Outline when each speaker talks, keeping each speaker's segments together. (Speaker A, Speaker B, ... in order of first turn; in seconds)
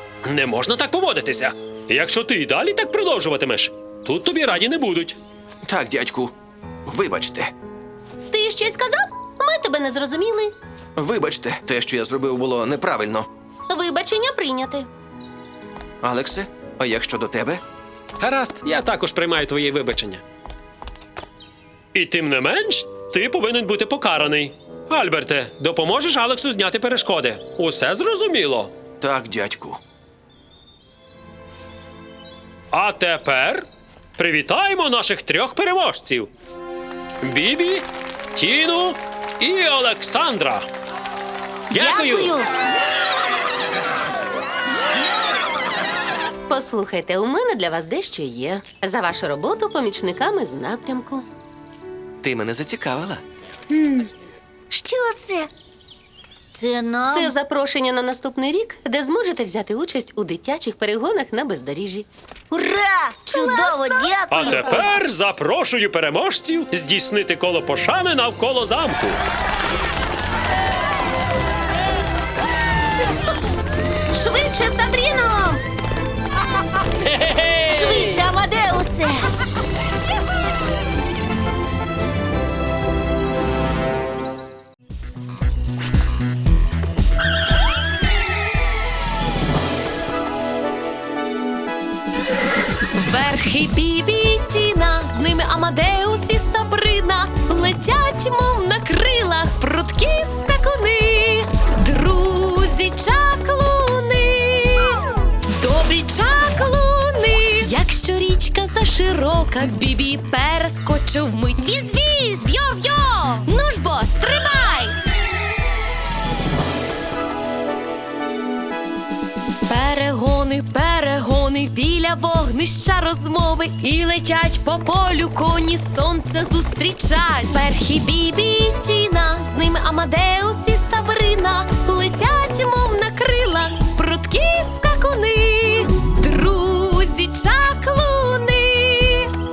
Speaker A: 0.2-5.2, 18.2-20.2, 21.9-28.7, 32.7-33.6, 34.2-36.3, 37.2-40.6, 41.7-42.4, 64.3-69.2, 77.0-78.3
Speaker B: 5.6-6.3, 6.8-7.5, 11.0-13.3, 16.0-17.6, 29.0-29.8, 52.2-53.2
Speaker C: 8.3-10.5, 13.7-14.9, 46.5-51.2, 57.1-62.1, 63.3-64.0, 74.1-75.6
Speaker D: 41.7-42.5, 53.7-54.1, 54.7-55.5, 56.5-57.3, 62.5-64.8, 77.7-79.3
Speaker E: 92.9-114.9, 119.7-139.3